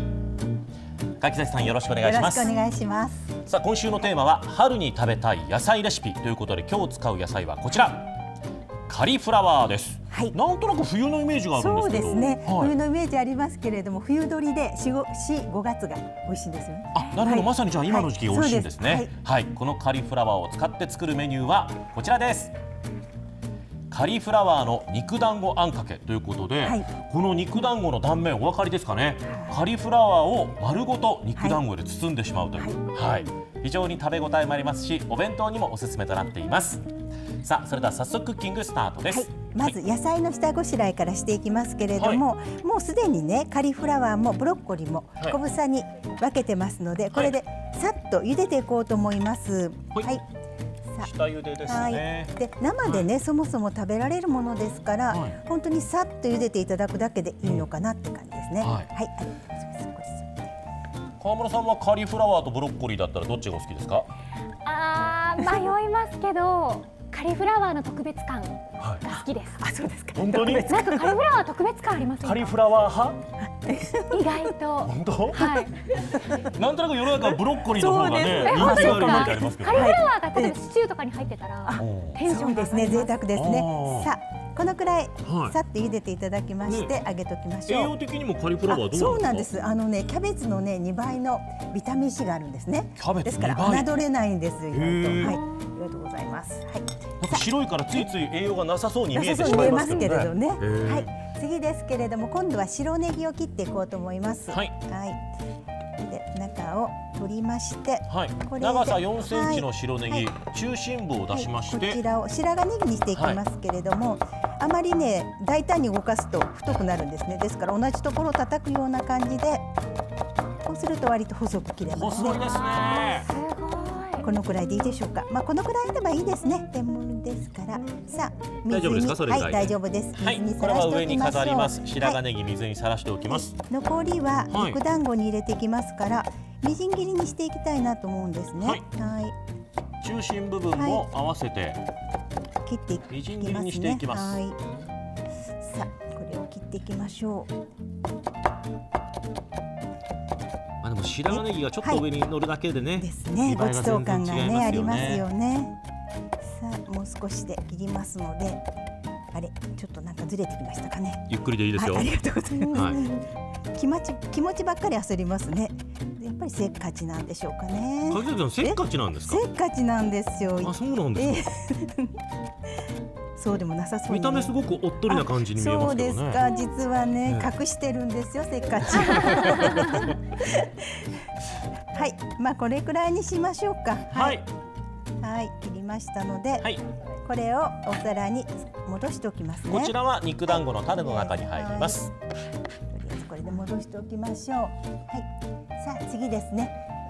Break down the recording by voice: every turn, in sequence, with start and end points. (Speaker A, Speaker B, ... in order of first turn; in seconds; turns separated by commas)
Speaker A: 1.2-2.5, Speaker B: 2.0-3.3, Speaker A: 3.5-8.1, Speaker A: 8.9-12.7, Speaker B: 10.1-10.3, Speaker B: 11.5-19.1, Speaker A: 16.9-22.5, Speaker A: 23.9-36.9, Speaker B: 26.6-26.9, Speaker B: 29.2-29.6, Speaker A: 37.4-39.7, Speaker B: 39.1-50.2, Speaker A: 42.0-42.2, Speaker A: 47.1-47.4, Speaker A: 51.0-52.3, Speaker B: 51.7-60.3, Speaker A: 55.1-55.4, Speaker A: 58.6-58.9, Speaker A: 61.2-64.1, Speaker C: 64.6-69.6, Speaker A: 68.8-69.1, Speaker B: 69.6-71.2, Speaker A: 70.1-70.7, Speaker C: 70.7-72.6, Speaker A: 72.2-73.2, Speaker B: 73.5-74.5, Speaker C: 74.1-75.7, Speaker A: 74.8-75.4, Speaker B: 75.3-76.5, Speaker A: 76.4-80.0, Speaker B: 77.2-80.5, Speaker C: 78.2-83.1, Speaker B: 81.7-87.9, Speaker A: 81.8-82.2, Speaker A: 83.3-84.1, Speaker A: 85.2-85.5, Speaker A: 86.6-87.0, Speaker A: 87.7-89.5, Speaker B: 88.7-98.1, Speaker A: 93.0-93.9, Speaker A: 94.7-95.4, Speaker A: 97.2-101.1, Speaker B: 99.1-105.2, Speaker B: 106.0-110.3, Speaker A: 108.1-112.0, Speaker B: 111.3-119.6, Speaker A: 113.1-113.4, Speaker B: 120.6-122.8, Speaker A: 121.9-123.3, Speaker C: 122.2-124.2, Speaker B: 124.2-132.2, Speaker A: 128.7-133.6, Speaker B: 133.3-139.3, Speaker A: 134.5-134.8, Speaker A: 138.6-138.8, Speaker A: 140.0-141.8, Speaker B: 140.8-141.1, Speaker B: 142.6-144.6, Speaker A: 143.1-144.4, Speaker B: 145.6-147.5, Speaker A: 150.8-155.2, Speaker B: 151.3-152.1, Speaker B: 153.0-155.8, Speaker B: 156.4-158.6, Speaker B: 159.3-163.2, Speaker A: 161.3-162.1, Speaker C: 162.5-163.2, Speaker A: 162.7-163.0, Speaker B: 163.7-172.1, Speaker A: 168.1-169.4, Speaker A: 170.6-171.4, Speaker B: 173.3-174.5, Speaker A: 174.1-176.4, Speaker B: 175.1-181.1, Speaker A: 179.2-180.0, Speaker B: 181.9-184.4, Speaker A: 184.1-184.5, Speaker B: 185.2-186.7, Speaker B: 187.2-189.9, Speaker A: 189.7-192.1, Speaker B: 190.5-192.1, Speaker B: 192.9-195.3, Speaker B: 195.8-196.7